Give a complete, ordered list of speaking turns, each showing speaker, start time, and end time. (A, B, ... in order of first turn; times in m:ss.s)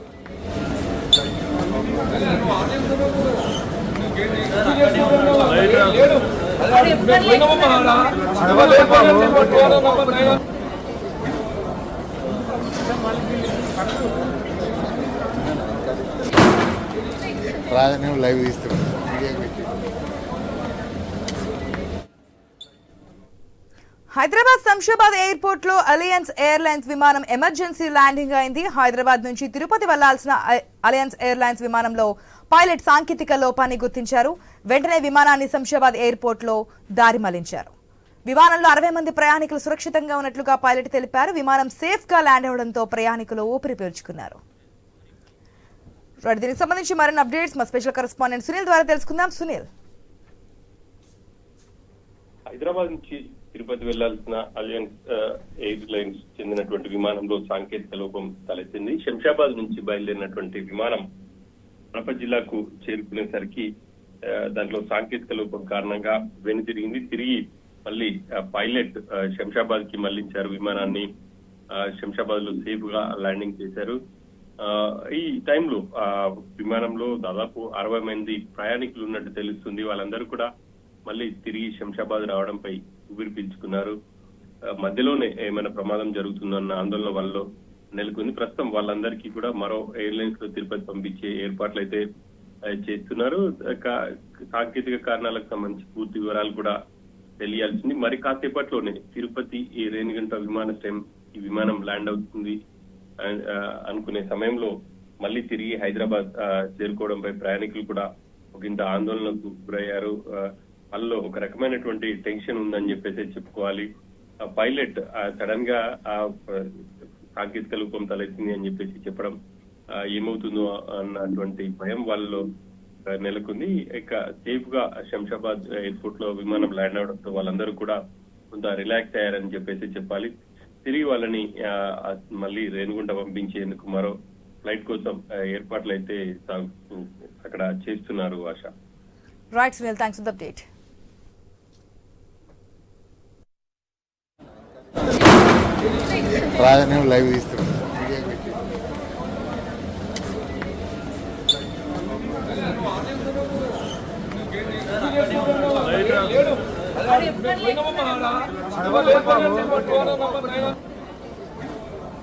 0:05.1-0:05.8 A
0:08.6-0:10.2 B
0:17.7-0:19.7 B
0:24.1-0:37.7 C
0:38.3-0:44.4 C
0:46.2-0:49.7 C
0:52.5-1:01.0 A
1:01.9-1:03.7 A
1:04.3-1:11.1 A
1:12.0-1:14.0 A
1:14.6-1:20.5 A
1:21.1-1:24.0 A
1:24.8-1:27.5 A
1:28.0-1:32.0 A
1:32.8-1:34.0 A
1:34.5-1:36.8 A
1:37.4-1:42.6 A
1:43.2-1:44.7 A
1:45.2-1:53.9 A
1:54.5-1:56.7 A
1:57.4-1:59.4 A
2:00.2-2:02.4 A
2:03.2-2:08.0 A
2:08.5-2:10.3 A
2:10.8-2:18.7 A
2:19.6-2:20.7 C
2:26.6-2:28.6 B
2:35.4-2:36.4 A